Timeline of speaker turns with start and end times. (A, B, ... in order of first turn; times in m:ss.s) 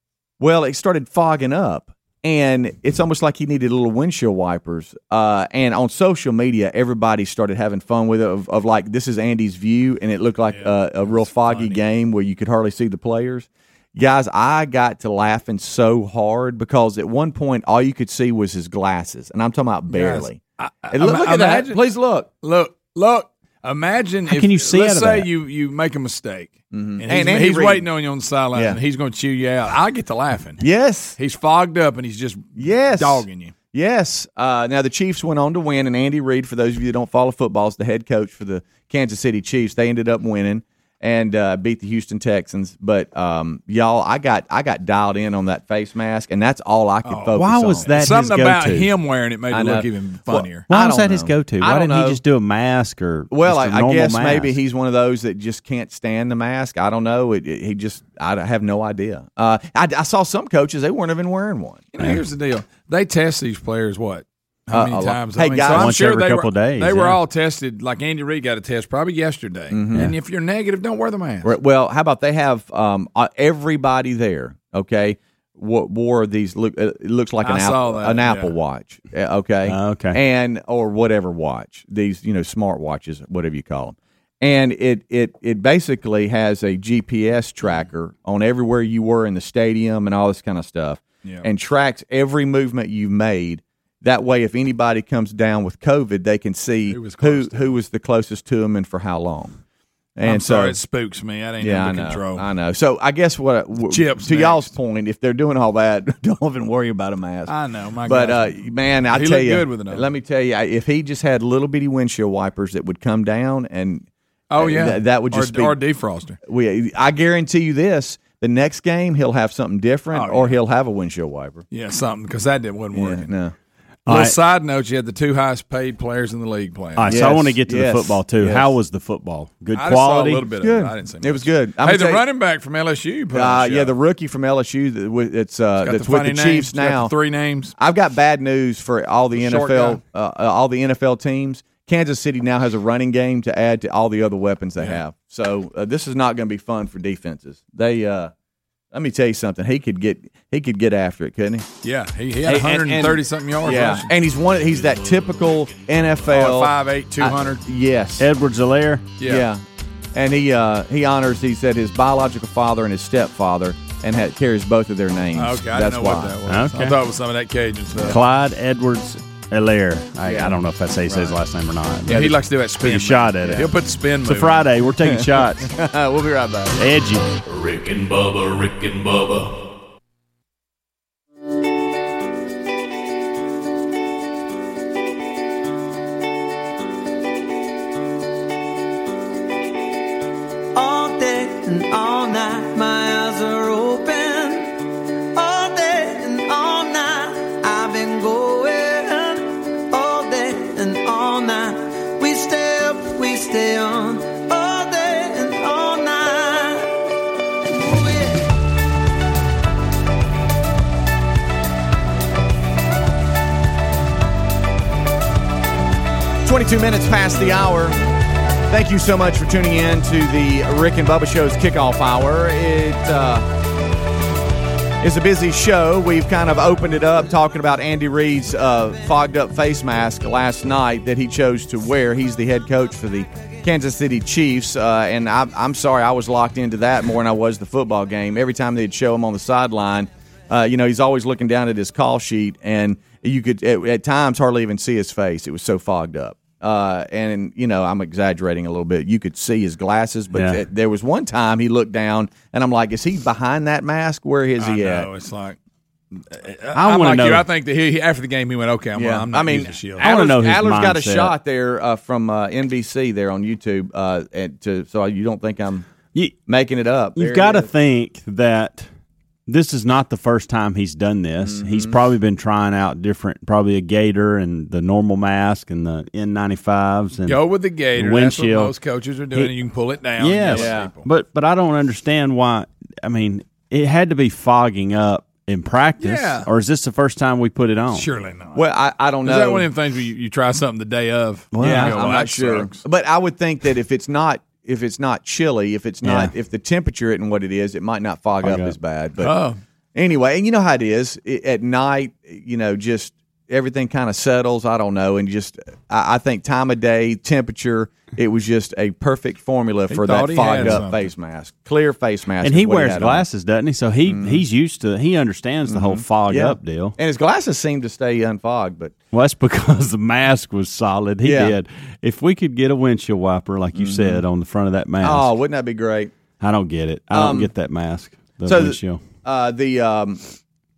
0:00.4-0:20.4 A
0:10.5-0:11.8 B
0:19.9-0:21.8 B
0:20.9-0:22.3 A
0:22.4-0:30.6 B
0:24.3-0:25.3 C
0:26.7-0:27.9 A
0:28.5-0:28.8 A
0:30.6-0:31.2 A
0:31.2-0:33.5 B
0:32.6-0:47.9 A
0:47.0-0:50.6 B
0:47.4-0:48.9 C
0:49.5-0:52.2 A
0:50.7-0:54.6 C
0:53.3-1:01.8 A
1:01.9-1:11.6 B
1:04.7-1:06.0 A
1:05.7-1:07.2 C
1:09.7-1:10.1 A
1:11.4-1:39.6 A
1:17.4-1:18.5 B
1:19.7-1:20.2 C
1:36.9-1:37.8 B
1:40.2-1:40.8 A
1:40.2-1:42.5 B
1:41.6-1:47.5 A
1:43.9-1:44.7 B
1:47.5-1:50.1 B
1:48.0-1:55.8 A
1:54.5-1:56.4 B
1:56.5-2:01.6 A
2:00.1-2:00.6 B
2:01.7-2:03.3 B
2:02.9-2:03.6 A
2:04.1-2:04.4 C
2:04.1-2:07.3 B
2:07.0-2:10.4 C
2:07.1-2:08.7 A
2:09.7-2:14.0 B
2:10.6-2:12.2 A
2:13.3-2:17.1 A
2:15.8-2:17.7 B
2:17.8-2:28.3 A
2:19.4-2:20.0 B
2:28.9-2:31.7 A
2:31.8-2:34.1 B
2:32.5-2:38.3 A
2:36.3-2:37.6 B
2:38.2-2:39.0 C
2:39.2-2:39.5 B
2:39.2-2:39.6 A
2:40.2-2:46.4 A
2:45.4-2:48.2 B
2:46.5-2:47.0 C
2:48.0-2:55.7 C
2:50.2-2:50.6 A
2:52.0-2:54.6 B
2:53.4-2:53.7 A
2:55.0-2:56.8 A
2:56.8-2:57.3 C
2:57.4-2:59.6 D
3:10.7-3:14.8 E
3:15.3-3:26.9 E
3:27.8-3:28.4 E
3:36.4-3:38.0 A
3:38.7-3:43.5 A
3:45.0-4:15.1 A
4:10.3-4:10.6 C
4:14.6-4:15.6 B
4:16.3-4:20.1 B
4:16.8-4:17.5 C
4:19.0-4:25.9 A
4:20.0-4:21.3 C
4:26.5-4:27.7 A
4:27.2-4:28.9 C
4:29.5-4:38.8 C
4:31.4-4:32.0 A
4:37.2-4:41.1 B
4:40.2-4:48.1 C
4:40.5-4:40.9 A
4:46.0-4:46.5 B
4:47.9-4:48.6 B
4:48.5-4:49.7 A
4:49.2-4:52.8 B
4:51.5-4:52.2 C
4:51.5-4:59.4 A
4:56.0-4:56.3 C
4:58.4-4:58.8 C
4:59.2-4:59.6 B
4:59.9-5:13.3 A
5:09.9-5:11.1 B
5:12.4-5:17.0 C
5:14.1-5:14.4 A
5:15.7-5:18.9 A
5:19.1-5:25.3 C
5:21.2-5:21.6 A
5:23.8-5:24.2 A
5:25.0-5:26.1 A
5:26.4-5:29.0 C
5:27.1-5:27.5 A
5:28.4-5:30.2 A